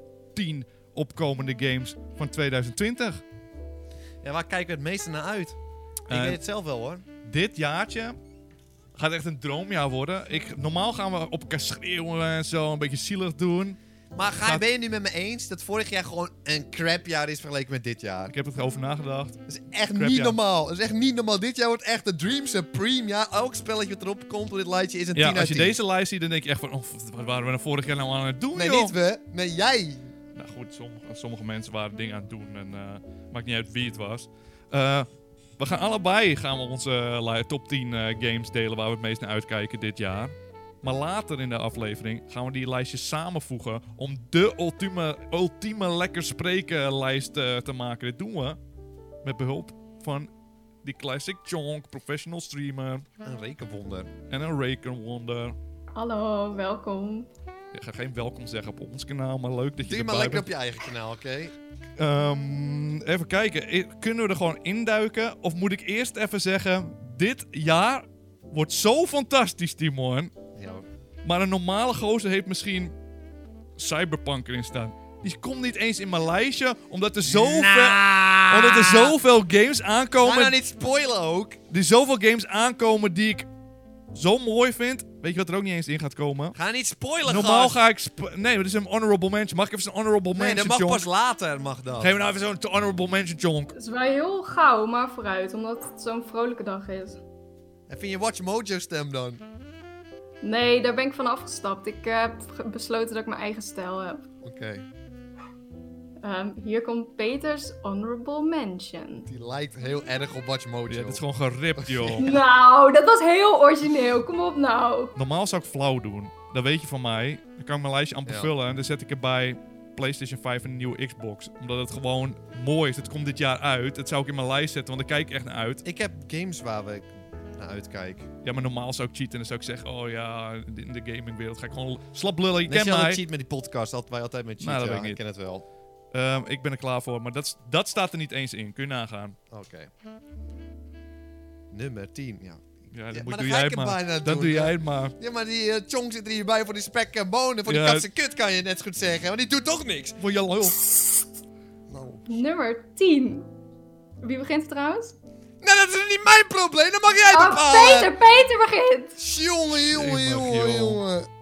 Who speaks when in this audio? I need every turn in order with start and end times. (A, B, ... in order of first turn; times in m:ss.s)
0:00.3-0:03.2 A
0:04.2-0:05.6 B
0:06.1-0:07.0 B
0:06.1-0:06.4 A
0:07.2-0:08.2 A
0:09.0-0:13.8 A
0:14.2-0:18.3 B
0:14.3-0:14.6 A
0:18.3-0:19.4 A
0:19.5-0:25.8 B
0:20.0-0:20.4 A
0:25.1-0:29.0 A
0:28.5-0:30.1 B
0:30.3-0:35.1 A
0:35.6-0:48.6 A
0:49.2-0:50.3 A
0:50.8-0:53.1 A
0:53.2-0:54.1 B
0:54.3-0:55.6 A
0:56.0-0:57.3 C
0:57.7-1:00.5 A
0:59.8-1:01.5 B
1:02.0-1:10.3 A
1:10.6-1:10.8 B
1:11.2-1:12.9 A
1:13.8-1:20.6 A
1:17.2-1:19.2 B
1:20.2-1:21.6 B
1:21.7-1:23.5 A
1:24.1-1:26.6 A
1:26.6-1:27.8 B
1:27.2-1:31.0 A
1:30.3-1:32.2 B
1:32.0-1:33.7 A
1:33.7-1:37.2 C
1:37.9-1:39.4 B
1:40.4-1:44.3 C
1:44.4-1:44.9 B
1:46.2-1:49.3 C
1:49.3-1:51.2 B
1:50.9-1:52.4 A
1:51.8-1:52.4 B
1:52.2-1:55.1 C
1:55.2-2:05.8 A
2:05.8-2:08.3 B
2:08.4-2:13.2 A
2:12.7-2:15.6 B
2:14.6-2:15.2 A
2:16.1-2:19.4 A
2:19.5-2:19.9 B
2:21.7-2:30.2 B
2:22.9-2:25.1 A
2:27.7-2:28.1 A
2:30.2-2:30.8 A
2:30.8-2:31.2 C
2:31.9-2:32.2 B
2:32.3-2:33.5 C
2:34.2-2:35.2 C
2:35.6-2:38.2 B
2:37.3-2:39.2 C
2:39.2-2:41.3 B
2:39.8-2:41.0 A